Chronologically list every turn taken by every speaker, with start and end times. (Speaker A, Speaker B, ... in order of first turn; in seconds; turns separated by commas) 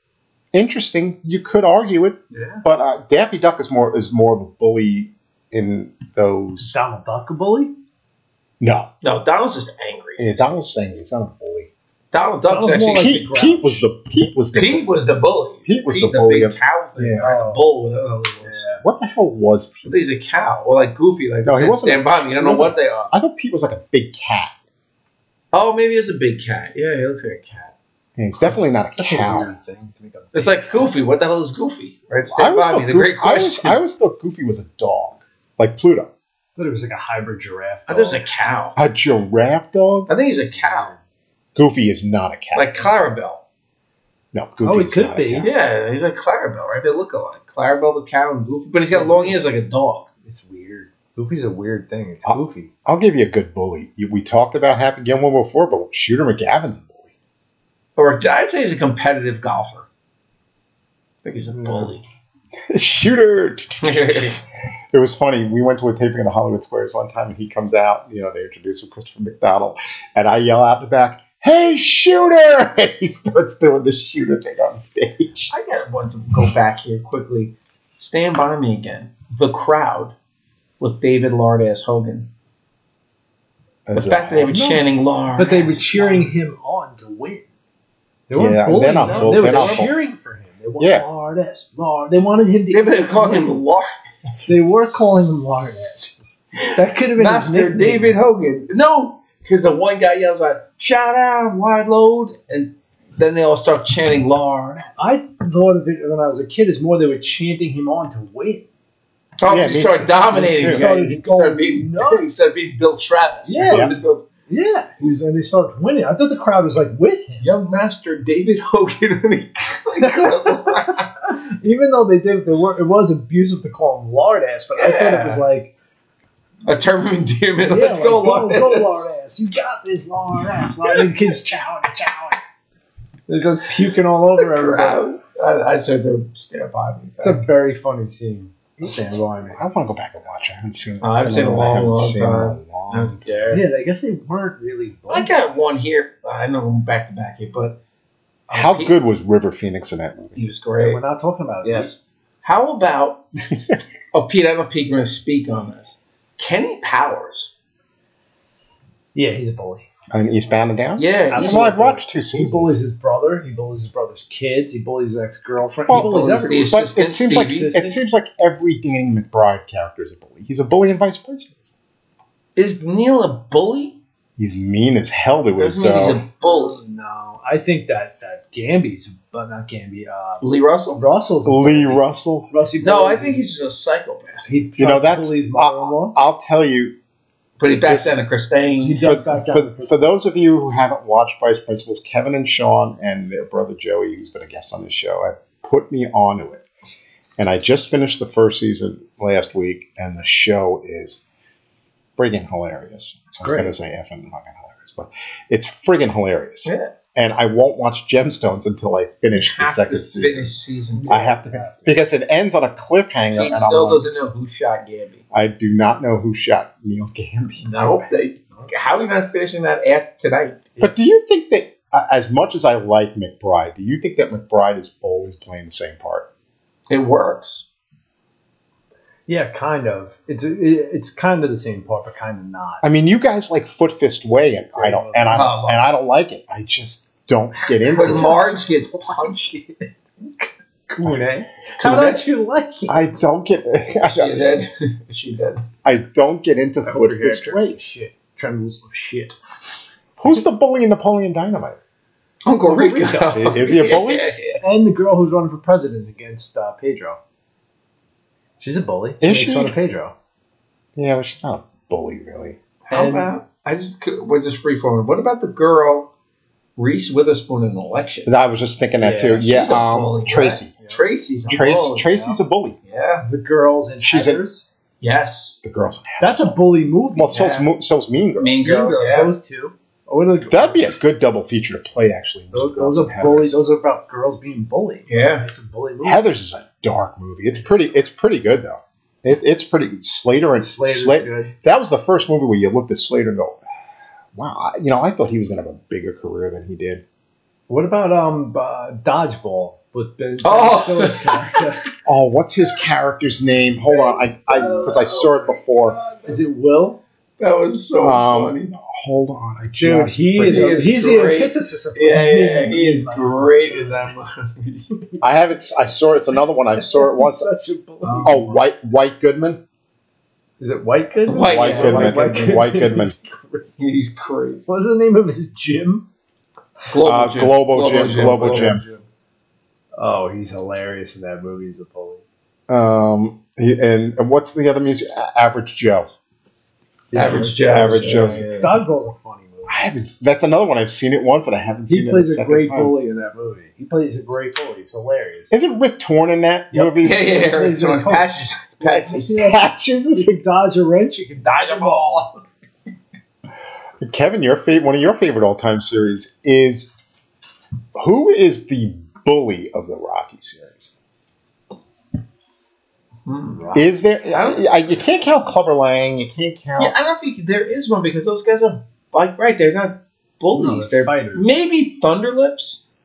Speaker A: 0.5-6.8, Speaker B: 2.3-2.6, Speaker B: 6.6-7.7, Speaker A: 8.6-8.9, Speaker C: 9.0-10.5, Speaker A: 10.2-11.7, Speaker C: 12.1-13.2, Speaker B: 12.5-13.9, Speaker A: 12.9-14.9, Speaker C: 14.5-18.6, Speaker A: 15.7-17.2, Speaker B: 17.2-17.6, Speaker B: 18.4-18.8, Speaker A: 18.8-19.9, Speaker C: 19.9-23.1, Speaker A: 21.4-24.5, Speaker C: 25.5-27.7, Speaker A: 28.1-29.5, Speaker B: 28.4-30.9, Speaker C: 30.3-33.8, Speaker A: 32.4-36.1, Speaker B: 36.5-38.2, Speaker C: 37.9-38.8, Speaker A: 38.8-40.1, Speaker C: 40.1-40.9, Speaker B: 40.4-41.0, Speaker A: 41.5-42.9, Speaker C: 42.5-43.4, Speaker A: 44.3-45.5, Speaker B: 44.6-45.5, Speaker C: 45.4-50.1, Speaker B: 48.9-49.5, Speaker B: 50.2-52.7, Speaker A: 52.2-57.1, Speaker C: 58.0-59.9, Speaker C: 61.2-62.0, Speaker B: 61.5-61.9, Speaker A: 62.7-64.4, Speaker C: 63.8-64.4, Speaker A: 64.9-75.5, Speaker C: 75.5-80.1, Speaker C: 80.8-82.3, Speaker A: 83.9-84.8, Speaker C: 83.9-86.3, Speaker B: 85.4-87.5, Speaker B: 88.3-93.5, Speaker A: 88.3-89.9, Speaker C: 88.9-89.9, Speaker A: 90.8-91.0, Speaker C: 92.7-93.9, Speaker B: 94.5-96.2, Speaker C: 94.7-95.1, Speaker C: 96.5-105.0, Speaker B: 96.7-98.2, Speaker B: 105.0-108.7, Speaker C: 109.4-114.2, Speaker A: 109.5-110.9, Speaker B: 110.3-112.5, Speaker B: 113.5-117.5, Speaker A: 113.7-114.0, Speaker C: 117.4-121.1, Speaker B: 120.0-125.7, Speaker C: 124.8-125.4, Speaker C: 126.7-129.1, Speaker B: 127.6-132.4, Speaker B: 133.3-135.0, Speaker C: 134.4-137.4, Speaker B: 137.2-139.6, Speaker A: 139.5-143.5, Speaker C: 141.0-143.6, Speaker B: 143.5-145.3, Speaker C: 145.1-147.8, Speaker C: 148.5-148.9, Speaker A: 148.5-150.4, Speaker C: 150.4-151.0, Speaker B: 150.8-151.9, Speaker C: 151.6-153.2, Speaker C: 154.1-157.5, Speaker B: 159.1-159.9, Speaker A: 160.1-162.8, Speaker C: 161.0-161.7, Speaker B: 161.3-166.8, Speaker A: 165.9-171.7, Speaker C: 165.9-167.8, Speaker B: 167.4-168.0, Speaker C: 172.6-174.0, Speaker A: 174.4-176.2, Speaker C: 175.6-176.8, Speaker B: 176.4-183.4, Speaker C: 180.4-181.0, Speaker A: 181.4-182.5, Speaker C: 182.8-184.4, Speaker B: 184.4-186.2, Speaker A: 184.8-186.9, Speaker C: 187.6-189.1, Speaker A: 187.9-188.1, Speaker B: 188.8-190.1, Speaker A: 189.0-196.6, Speaker A: 197.4-201.2, Speaker A: 202.2-210.5, Speaker B: 203.4-203.7, Speaker C: 209.3-211.2, Speaker B: 210.9-212.0, Speaker A: 211.1-214.1, Speaker C: 213.3-215.2, Speaker A: 215.3-217.7, Speaker C: 217.6-220.7, Speaker A: 220.8-226.3, Speaker C: 226.9-227.7, Speaker B: 229.3-232.8, Speaker A: 232.8-238.4, Speaker B: 234.7-235.5, Speaker C: 235.3-235.8, Speaker B: 237.8-243.1, Speaker C: 237.8-239.6, Speaker C: 241.8-242.2, Speaker A: 242.9-244.6, Speaker C: 244.0-245.6, Speaker A: 245.8-247.8, Speaker B: 246.8-249.4, Speaker A: 250.2-251.8, Speaker C: 252.4-254.6, Speaker B: 252.6-253.8, Speaker A: 253.3-254.3, Speaker B: 254.6-257.2, Speaker B: 258.6-260.1, Speaker A: 259.2-259.7, Speaker A: 260.9-262.6, Speaker C: 262.8-266.1, Speaker B: 262.9-263.3, Speaker C: 266.8-268.3, Speaker A: 268.3-270.7, Speaker B: 269.0-269.5, Speaker C: 269.3-273.2, Speaker A: 271.5-272.8, Speaker B: 273.2-274.7, Speaker A: 274.0-274.4, Speaker C: 275.0-275.6, Speaker A: 275.6-276.6, Speaker B: 276.2-277.4, Speaker A: 277.1-278.8, Speaker C: 277.3-277.7, Speaker C: 278.4-279.3, Speaker B: 278.6-280.9, Speaker A: 280.5-283.6, Speaker B: 282.5-286.3, Speaker C: 285.1-285.4, Speaker A: 286.0-293.6, Speaker B: 287.5-288.0, Speaker B: 290.6-291.5, Speaker A: 294.3-297.0, Speaker B: 297.7-301.9, Speaker C: 300.4-301.6, Speaker A: 302.1-306.0, Speaker B: 304.5-305.3, Speaker C: 304.6-306.3, Speaker B: 306.2-307.0, Speaker C: 307.4-308.7, Speaker A: 308.0-310.9, Speaker B: 309.8-314.1, Speaker C: 310.5-315.0, Speaker A: 315.2-317.5, Speaker B: 316.8-318.6, Speaker C: 318.0-318.4, Speaker A: 318.2-319.6, Speaker B: 320.6-323.7, Speaker C: 321.3-322.6, Speaker A: 321.4-323.1, Speaker C: 323.8-324.6, Speaker B: 324.6-326.1, Speaker C: 326.9-329.0, Speaker A: 327.0-328.8, Speaker B: 329.9-332.2, Speaker A: 332.7-336.1, Speaker B: 337.1-339.9, Speaker C: 337.1-338.8, Speaker A: 337.6-338.5, Speaker A: 339.7-342.9, Speaker B: 341.9-345.5, Speaker A: 345.5-347.3, Speaker B: 346.7-352.3, Speaker C: 347.0-349.5, Speaker A: 349.4-350.4, Speaker C: 351.4-352.4, Speaker A: 354.0-356.9, Speaker A: 357.9-360.9, Speaker C: 363.3-363.7, Speaker B: 363.5-363.9, Speaker A: 363.7-366.9, Speaker C: 364.3-364.6, Speaker C: 366.8-372.8, Speaker B: 370.5-371.6